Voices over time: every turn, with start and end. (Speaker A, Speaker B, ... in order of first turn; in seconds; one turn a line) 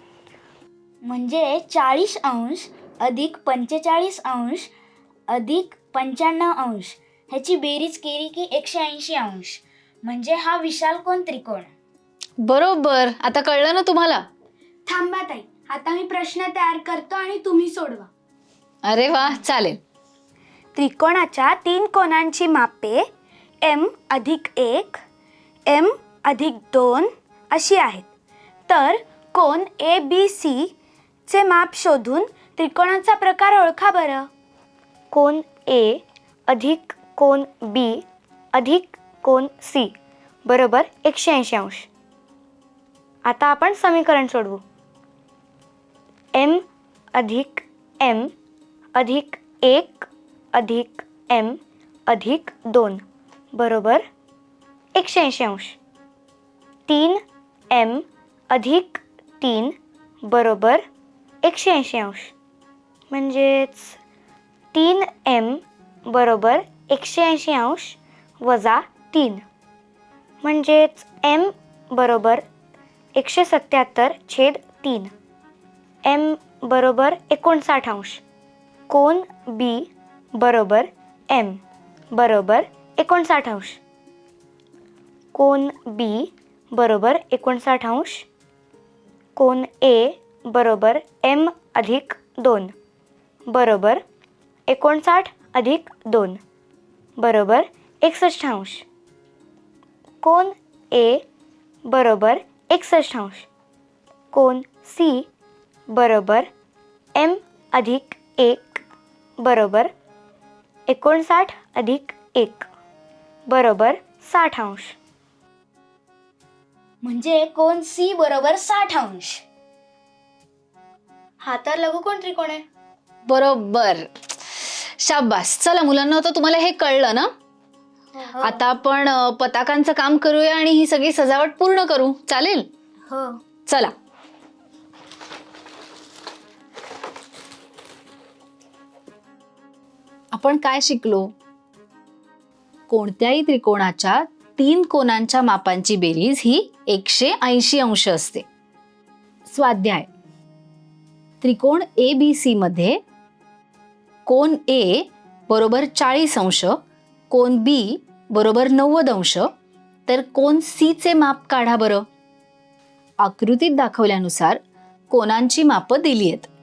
Speaker A: 1.1-4.7
Speaker A: 5.3-11.7
Speaker B: 12.4-14.2
Speaker C: 14.8-18.1
Speaker B: 18.8-19.8
Speaker C: 20.7-23.1
Speaker C: 23.6-25.0
Speaker C: 25.6-28.1
Speaker C: 28.7-30.7
Speaker C: 31.3-34.3
Speaker D: 35.1-39.9
Speaker D: 40.5-41.9
Speaker D: 43.2-44.6
Speaker D: 46.4-46.6
Speaker D: 47.1-48.3
Speaker D: 49.0-51.6
Speaker D: 52.1-53.0
Speaker D: 53.5-54.0
Speaker D: 54.9-55.8
Speaker D: 56.9-57.2
Speaker D: 57.7-59.7
Speaker D: 60.3-60.8
Speaker D: 61.4-62.3
Speaker D: 63.1-64.0
Speaker D: 64.7-69.4
Speaker D: 70.4-72.4
Speaker D: 73.2-75.1
Speaker D: 76.0-78.2
Speaker D: 78.9-81.6
Speaker D: 82.1-83.8
Speaker D: 85.3-88.2
Speaker D: 89.4-92.7
Speaker D: 93.5-94.0
Speaker D: 94.7-96.4
Speaker D: 97.2-98.8
Speaker D: 100.2-101.2
Speaker D: 101.9-103.5
Speaker D: 104.3-105.3
Speaker D: 105.9-106.5
Speaker D: 107.2-108.8
Speaker D: 109.4-109.9
Speaker D: 110.9-112.7
Speaker D: 113.5-114.9
Speaker A: 117.0-119.3
Speaker D: 121.4-122.6
Speaker B: 123.3-127.3
Speaker D: 128.2-128.6
Speaker B: 128.4-132.7
Speaker B: 133.7-133.9
Speaker B: 140.3-141.3
Speaker B: 142.9-148.4
Speaker B: 149.5-150.1
Speaker B: 151.4-153.0
Speaker B: 154.3-156.8
Speaker B: 157.3-159.5
Speaker B: 160.1-162.0
Speaker B: 163.2-164.6
Speaker B: 165.1-166.5